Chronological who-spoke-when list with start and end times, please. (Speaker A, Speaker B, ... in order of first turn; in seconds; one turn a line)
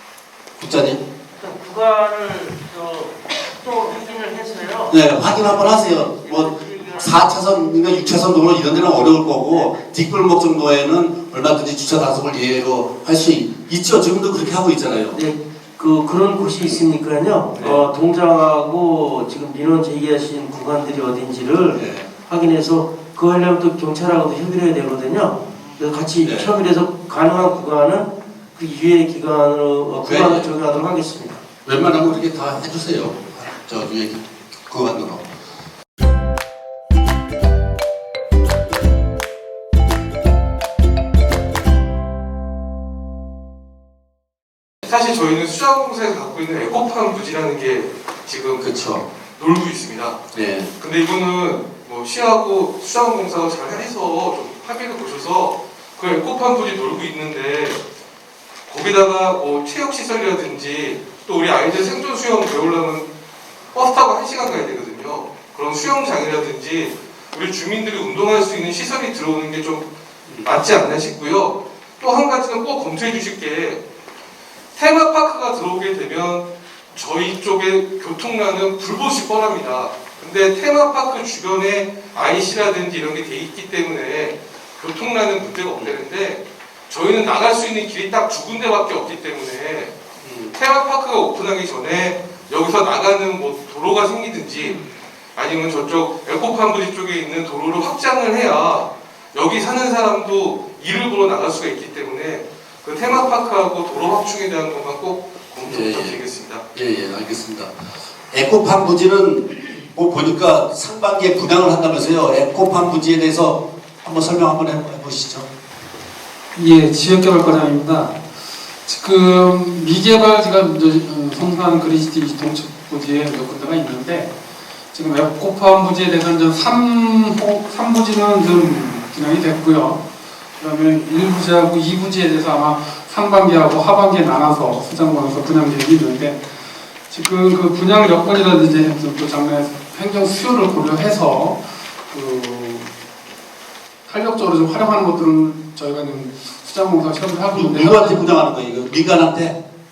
Speaker A: 0.6-1.0
Speaker B: 1.3-5.0
Speaker A: 4.9-15.2
Speaker B: 6.2-7.2
Speaker B: 15.1-31.4
Speaker A: 17.5-17.9
Speaker A: 21.7-22.1
Speaker A: 26.2-26.5
Speaker A: 30.0-30.5
Speaker A: 31.6-35.2
Speaker C: 44.9-48.6
Speaker A: 48.6-49.0
Speaker C: 49.4-50.2
Speaker A: 50.3-50.7
Speaker C: 50.8-57.8
Speaker C: 58.7-63.1
Speaker C: 63.7-69.9
Speaker C: 70.4-73.8
Speaker C: 74.8-90.0
Speaker A: 90.2-90.5
Speaker C: 90.5-94.8
Speaker C: 95.4-106.6
Speaker A: 103.0-103.3
Speaker A: 105.6-106.2
Speaker A: 106.7-107.7
Speaker A: 108.3-115.5
Speaker D: 116.5-118.1
Speaker D: 118.9-124.3
Speaker D: 124.9-130.0
Speaker D: 130.6-136.4
Speaker D: 137.1-142.9
Speaker D: 144.1-148.4
Speaker A: 147.5-149.6